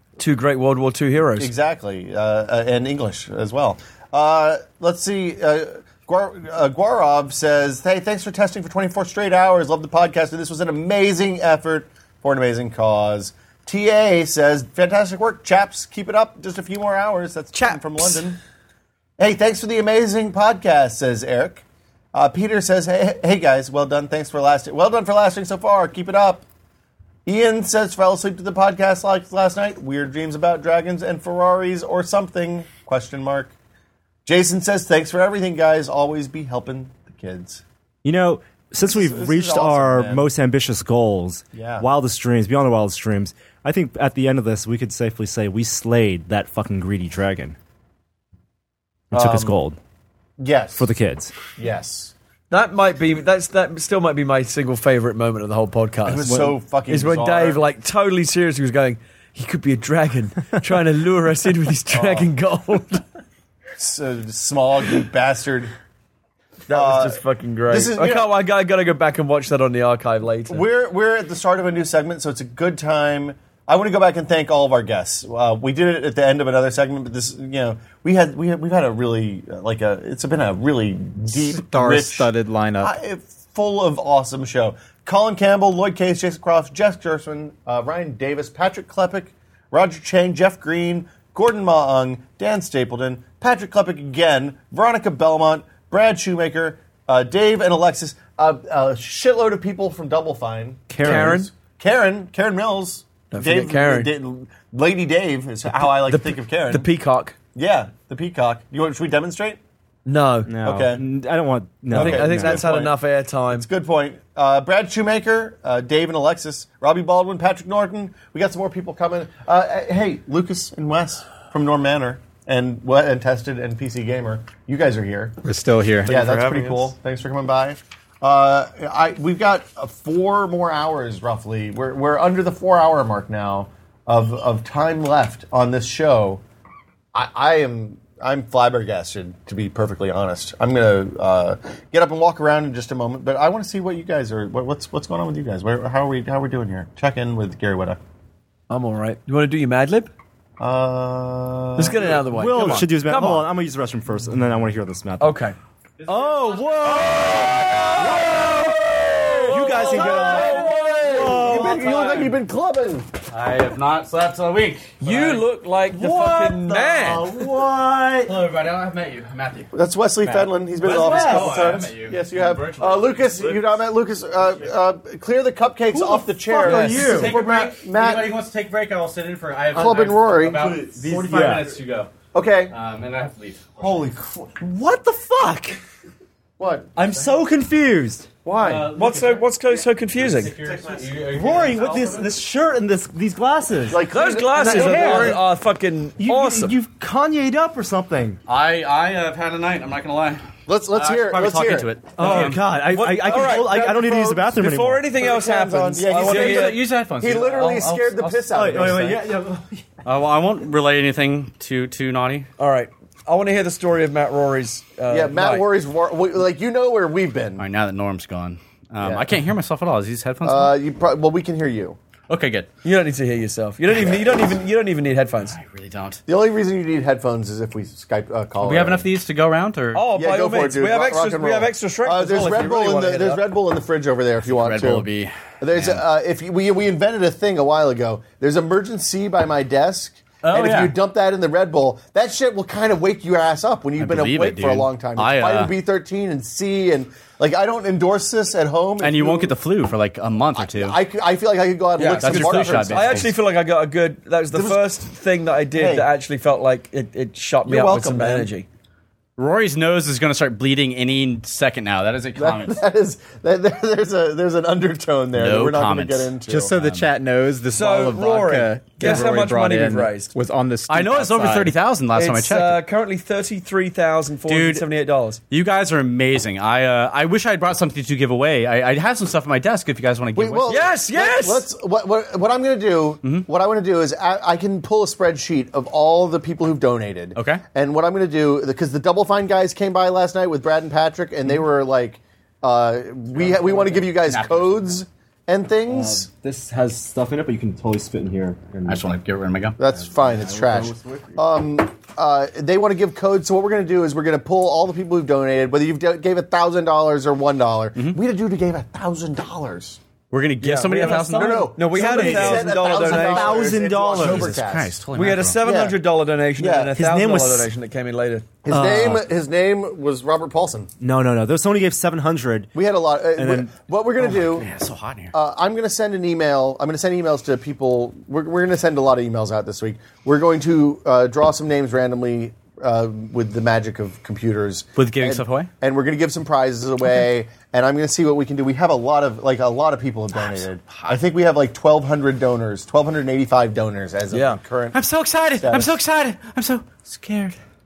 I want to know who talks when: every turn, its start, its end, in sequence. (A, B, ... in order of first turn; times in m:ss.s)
0:00.2-0:01.5 A
0:01.4-0:18.4 B
0:17.5-0:18.2 A
0:19.2-0:26.4 B
0:27.3-0:33.5 B
0:34.2-0:37.6 B
0:38.0-0:47.6 C
0:38.9-0:40.3 B
0:41.5-0:41.9 B
0:49.1-0:49.6 B
0:49.1-0:49.8 C
0:50.4-0:50.9 B
0:50.8-0:51.3 C
0:51.6-0:52.1 B
0:52.5-1:03.0 A
0:56.0-0:57.6 B
0:56.2-0:56.5 C
1:01.9-1:02.3 B
1:03.8-1:05.7 B
1:06.7-1:10.6 A
1:06.7-1:08.3 B
1:10.5-1:46.9 B
1:21.3-1:22.9 D
1:40.9-1:41.5 C
1:41.0-1:41.5 A
1:43.3-1:44.1 A
1:45.8-1:47.4 A
1:47.6-1:49.6 B
1:50.1-1:50.5 A
1:50.5-1:52.9 C
1:50.6-1:51.0 B
1:51.9-1:52.9 B
1:51.9-1:53.7 A
1:53.5-2:05.4 B
2:05.4-2:06.9 D
2:06.0-2:16.4 B
2:17.1-2:28.0 B
2:28.7-2:30.1 A
2:30.6-2:32.2 B
2:31.8-2:33.5 A
2:32.3-2:35.4 C
2:35.2-2:35.6 A
2:36.0-2:37.9 E
2:36.1-2:38.5 C
2:38.4-2:43.1 B
2:39.5-2:42.2 C
2:39.5-2:40.8 A
2:40.4-2:41.3 E
2:43.3-2:45.4 E
2:45.0-2:47.3 A
2:45.9-2:48.4 C
2:47.3-2:47.6 E
2:48.2-2:53.8 E
2:49.7-2:58.3 B
2:50.8-2:51.9 C
2:55.9-2:57.3 C
2:56.7-3:02.1 E
2:59.7-3:01.5 B
3:01.3-3:01.7 C
3:02.3-3:02.7 B
3:02.7-3:04.1 E
3:03.8-3:04.6 B
3:04.6-3:05.8 C
3:06.6-3:07.3 B
3:07.0-3:08.3 C
3:08.4-3:08.9 B
3:08.6-3:12.4 E
3:08.9-3:10.5 A
3:10.6-3:11.0 B
3:11.3-3:15.4 C
3:13.9-3:15.4 B
3:14.1-3:16.8 A
3:16.2-3:18.4 C
3:18.5-3:22.6 E
3:20.7-3:22.2 B
3:22.2-3:25.1 C
3:22.2-3:26.8 A
3:23.2-3:24.4 B
3:25.1-3:29.3 B
3:26.2-3:28.3 E
3:28.5-3:29.9 C
3:28.5-3:29.0 A
3:30.0-3:32.5 E
3:32.6-3:35.6 A
3:35.1-3:37.6 B
3:37.6-3:40.8 E
3:39.0-3:39.3 B
3:40.4-3:42.0 B
3:42.3-3:42.7 E
3:42.8-3:45.6 A
3:45.5-3:46.2 E
3:46.3-3:49.0 B
3:48.6-3:50.0 E
3:50.0-3:53.4 A
3:50.2-3:55.1 B
3:54.4-3:56.0 E
3:55.6-4:09.5 B
4:00.4-4:00.9 E
4:04.0-4:05.7 E
4:09.0-4:11.0 E
4:10.6-4:13.3 B
4:12.0-4:18.7 A
4:12.2-4:13.3 E
4:14.5-4:15.0 B
4:15.7-4:16.1 B
4:17.7-4:18.5 B
4:19.4-4:22.8 E
4:22.4-4:26.7 B
4:25.4-4:27.1 E
4:26.5-4:31.8 D
4:27.7-4:30.3 A
4:30.9-4:32.8 E
4:32.1-4:35.4 A
4:34.5-4:34.9 E
4:35.5-4:40.8 E
4:40.4-4:56.3 B
4:40.7-4:41.7 A
4:47.4-4:47.6 E
4:53.4-4:54.1 C
4:54.3-4:54.9 E
4:55.9-4:59.1 C
4:58.9-4:59.8 E
4:59.8-5:10.0 B
4:59.9-5:01.4 C
5:10.3-5:11.7 E
5:10.6-5:13.6 A
5:11.3-5:14.9 B
5:12.0-5:14.6 C
5:14.2-5:15.6 E
5:15.1-5:18.5 A
5:15.6-5:16.0 B
5:16.6-5:16.9 B
5:17.0-5:17.7 C
5:18.6-5:20.9 B
5:18.7-5:19.2 C
5:21.0-5:22.8 C
5:22.7-5:24.7 B
5:23.4-5:23.7 C
5:24.3-5:25.3 E
5:25.3-5:45.0 B
5:35.0-5:35.7 E
5:40.3-5:41.2 E
5:44.3-5:44.6 A
5:44.9-5:47.6 E
5:45.6-5:46.0 B